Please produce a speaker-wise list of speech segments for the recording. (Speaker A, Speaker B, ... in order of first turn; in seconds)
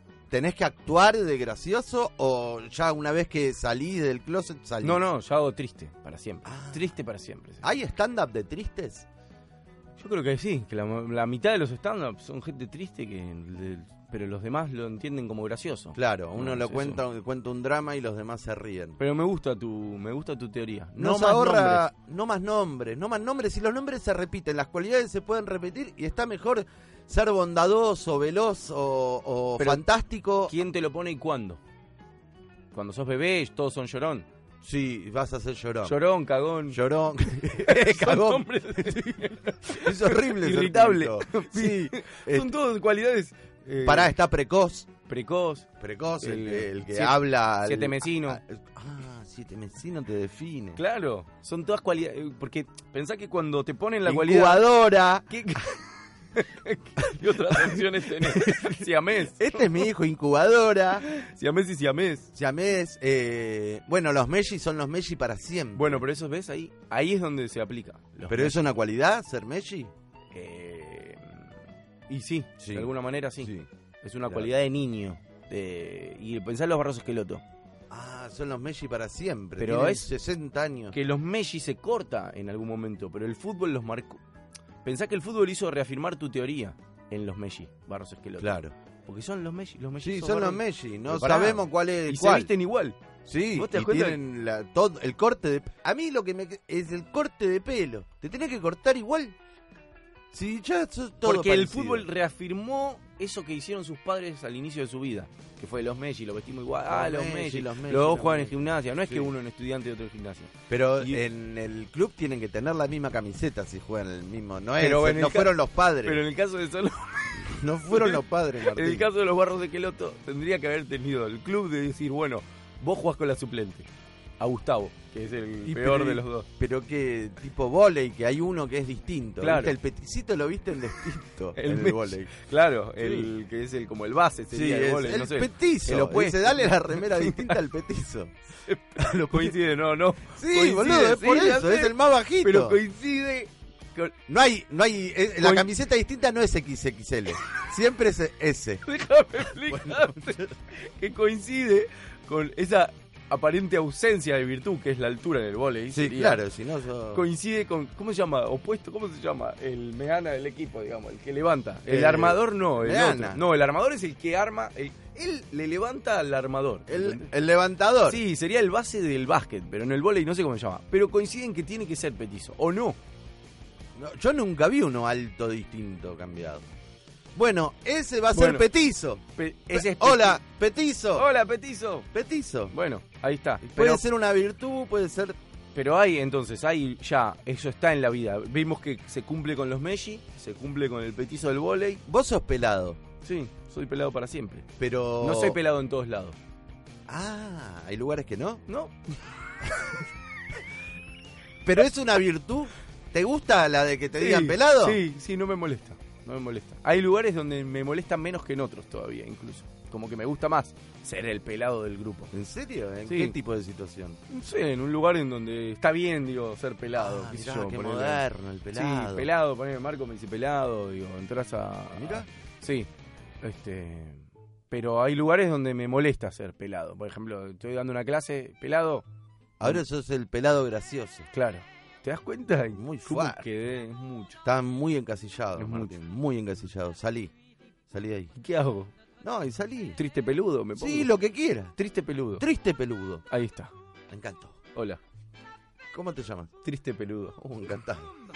Speaker A: 0.3-5.0, 6.4-6.9, 7.6-9.1, 15.9-19.0, 20.9-30.6, 34.6-36.0, 36.7-38.9, 39.8-42.5, 43.8-44.9, 45.8-50.8, 54.0-55.3, 57.1-61.0, 62.3-66.0, 68.3-69.9, 72.6-73.7, 74.2-74.5, 77.9-81.0, 88.4-88.7, 90.0-92.5, 93.2-99.3, 100.3-102.1, 106.9-109.3, 110.7-116.2, 117.3-119.1, 125.6-132.3, 133.0-133.3, 134.5-138.3, 140.3-142.8, 144.3-148.8, 149.7-150.5, 155.9-157.2, 161.9-163.4, 166.9-168.2, 173.9-176.7, 177.3-181.3, 182.1-182.7, 183.6-185.4, 192.1-193.0, 194.8-195.6, 197.1-198.6, 201.6-205.0, 212.3-214.2, 216.9-219.3, 221.9-222.3, 229.6-231.3, 232.7-233.4, 234.4-237.3, 237.9-238.3, 239.2-240.0, 240.8-241.7, 242.4-243.2, 244.1-244.6, 245.9-246.5, 247.4-248.1
Speaker B: 4.8-7.6, 10.0-17.0, 19.0-21.9, 29.6-29.8, 30.4-31.6, 32.7-34.3, 35.8-36.8, 37.4-44.1, 45.1-45.7, 46.2-48.4, 50.8-54.7, 55.3-59.7, 61.0-62.3, 65.7-68.6, 70.3-71.5, 72.1-77.4, 79.6-80.1, 80.9-84.2, 84.8-93.0, 93.5-94.2, 101.2-111.2, 114.8-123.9, 124.4-126.5, 129.4-129.8, 131.5-137.6, 138.6-144.1, 145.4-145.7, 148.8-156.4, 157.1-167.3, 168.1-173.0, 178.3-178.7, 179.3-180.4, 181.1-182.1, 182.7-184.0, 185.7-192.0, 193.2-194.7, 195.2-196.4, 198.7-198.9, 204.2-212.3, 213.1-213.3, 214.3-222.9, 223.4-229.0, 231.3-234.4, 235.6-235.9, 238.3-238.9, 239.9-241.1, 241.8-242.4, 243.3-243.7, 244.7-245.0, 246.6-247.6